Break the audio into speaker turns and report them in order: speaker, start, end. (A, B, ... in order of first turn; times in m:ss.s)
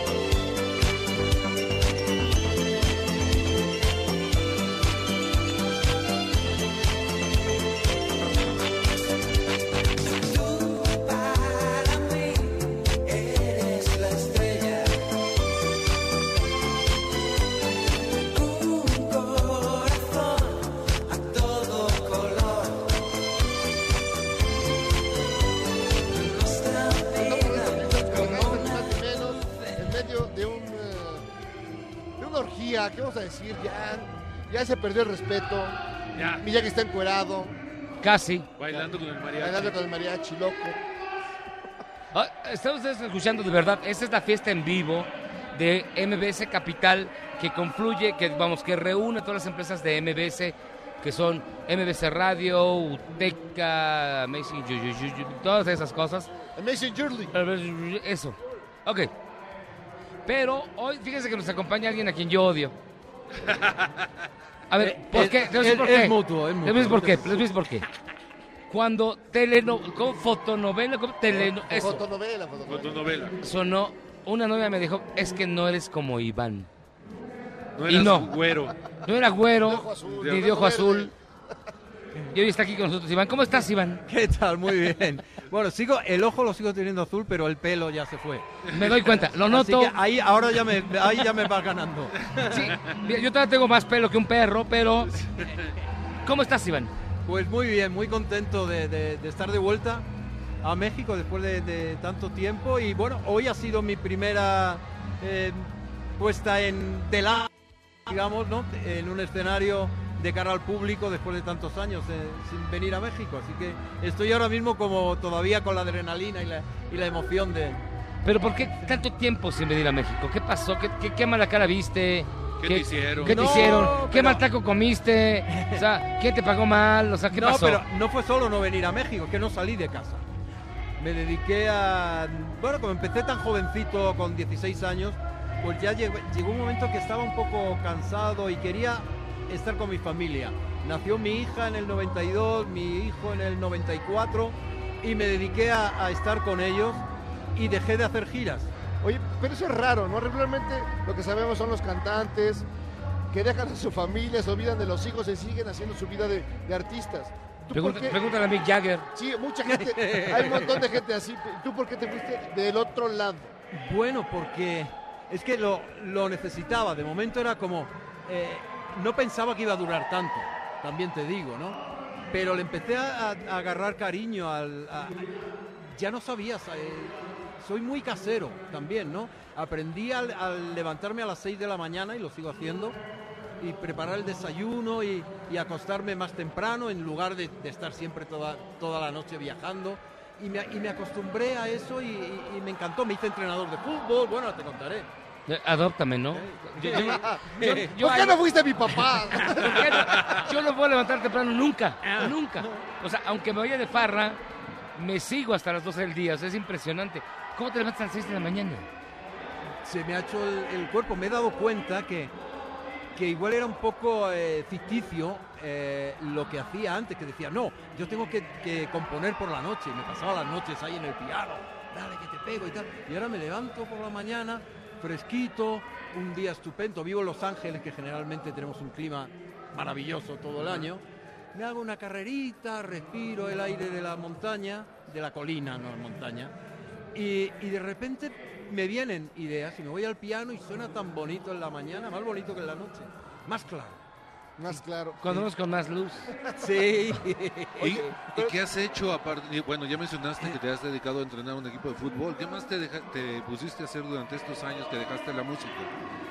0:10.6-0:12.4 A
0:13.0-0:14.9 A
0:18.6-0:20.4 A
0:21.1-0:22.7 A
0:26.2-0:28.9 A
0:27.1-0:31.2 B
0:32.2-0:35.8 B
0:36.2-0:36.4 C
0:36.4-0:37.6 B
0:38.0-0:38.5 D
0:38.6-0:39.8 C
0:38.7-0:40.8 B
0:42.1-0:56.3 D
0:56.6-0:57.3 B
0:57.3-0:59.1 D
1:00.3-1:02.8 D
1:03.4-1:03.9 C
1:04.7-1:07.8 D
1:04.8-1:07.5 E
1:08.7-1:12.0 D
1:11.3-1:13.1 B
1:12.7-1:13.4 C
1:13.4-1:16.7 D
1:17.8-1:18.8 C
1:17.9-1:18.3 D
1:19.1-1:21.1 D
1:19.6-1:21.2 B
1:22.3-1:24.0 D
1:24.1-1:28.5 E
1:28.7-1:29.0 C
1:28.7-1:30.0 D
1:29.4-1:32.6 E
1:32.5-1:35.2 D
1:35.3-1:35.7 C
1:36.2-1:36.9 D
1:37.3-1:40.1 E
1:40.6-1:47.5 E
1:48.1-1:57.8 E
1:58.2-2:07.8 D
2:02.6-2:03.8 C
2:03.2-2:04.4 E
2:05.5-2:05.8 E
2:07.3-2:10.2 E
2:11.0-2:27.0 E
2:27.6-2:28.7 E
2:29.0-2:32.7 B
2:33.3-2:38.2 B
2:37.7-2:39.1 D
2:39.2-2:43.5 B
2:39.6-2:40.9 E
2:43.7-2:51.8 E
2:52.3-2:55.3 E
2:55.9-3:03.0 E
3:03.6-3:15.1 E
3:15.5-3:18.4 D
3:16.3-3:18.0 E
3:17.0-3:17.4 B
3:18.0-3:19.9 B
3:19.4-3:24.4 D
3:20.1-3:20.4 C
3:22.0-3:22.8 E
3:25.0-3:28.9 D
3:29.8-3:32.3 E
3:33.2-3:51.0 E
3:51.5-3:56.5 E
3:57.1-4:04.0 E
4:04.6-4:05.4 B
4:05.2-4:06.3 D
4:06.6-4:08.0 E
4:07.8-4:15.9 C
4:07.8-4:08.6 B